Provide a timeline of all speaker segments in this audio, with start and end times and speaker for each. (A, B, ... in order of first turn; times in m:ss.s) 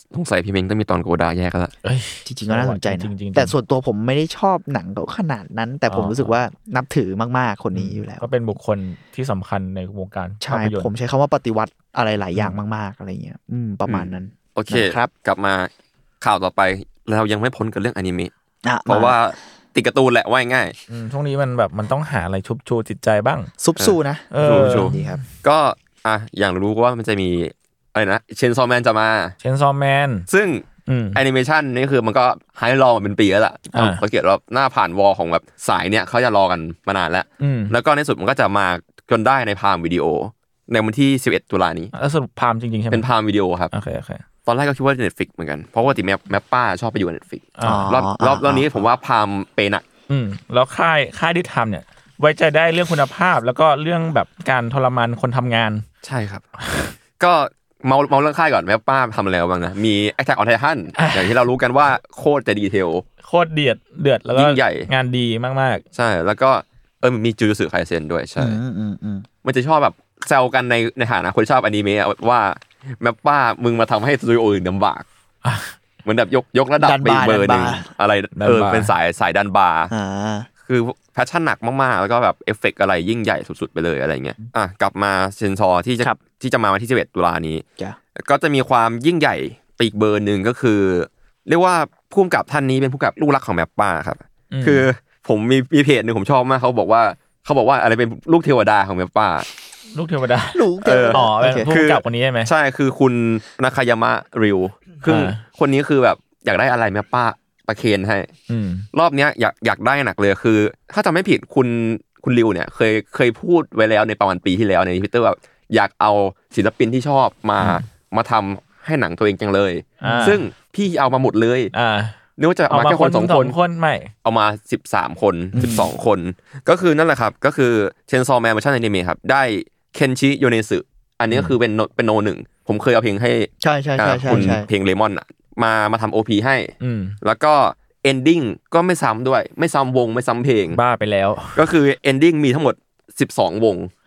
0:00.1-0:01.7 A
0:01.8-0:03.5 B
0:02.2-0:08.2 C
0:05.9-0:06.3 B
0:07.7-0:10.9 B
0:10.4-0:15.1 C
0:13.9-0:15.7 A
0:16.2-0:18.3 A
0:18.6-0:19.2 C
0:18.9-0:20.8 A
0:20.9-0:23.5 B
0:23.6-0:25.2 C
0:23.8-0:29.3 A
0:24.3-0:25.2 B
0:29.4-0:30.2 B
0:30.3-0:41.9 A
0:30.9-0:31.2 B
0:33.7-0:34.0 B
0:37.4-0:37.7 B
0:41.9-0:43.0 B
0:42.9-0:43.7 A
0:43.7-0:44.2 B
0:44.4-0:49.8 A
0:47.6-0:47.9 B
0:47.6-0:48.7 C
0:50.1-0:55.8 B
0:56.0-0:56.4 A
0:56.6-0:56.9 B
0:57.2-1:03.0 A
1:01.0-1:01.3 B
1:03.2-1:05.8 B
1:04.4-1:04.9 A
1:05.9-1:08.6 A
1:08.4-1:09.3 C
1:09.4-1:15.0 A
1:15.4-1:15.7 B
1:16.0-1:19.9 A
1:16.8-1:17.9 C
1:18.4-1:18.9 B
1:19.9-1:20.5 C
1:20.6-1:27.6 A
1:28.2-1:39.5 A
1:34.5-1:34.9 B
1:39.9-1:42.5 B
1:40.5-1:41.7 C
1:40.8-1:48.3 A
1:45.0-1:45.4 B
1:48.5-1:48.8 B
1:48.9-2:01.7 A
2:00.0-2:00.4 B
2:01.7-2:02.2 B
2:02.4-2:03.6 A
2:02.7-2:04.1 B
2:04.2-2:20.8 A
2:05.5-2:05.9 C
2:13.6-2:14.7 C
2:16.8-2:17.2 B
2:20.7-2:21.6 B
2:21.5-2:23.9 A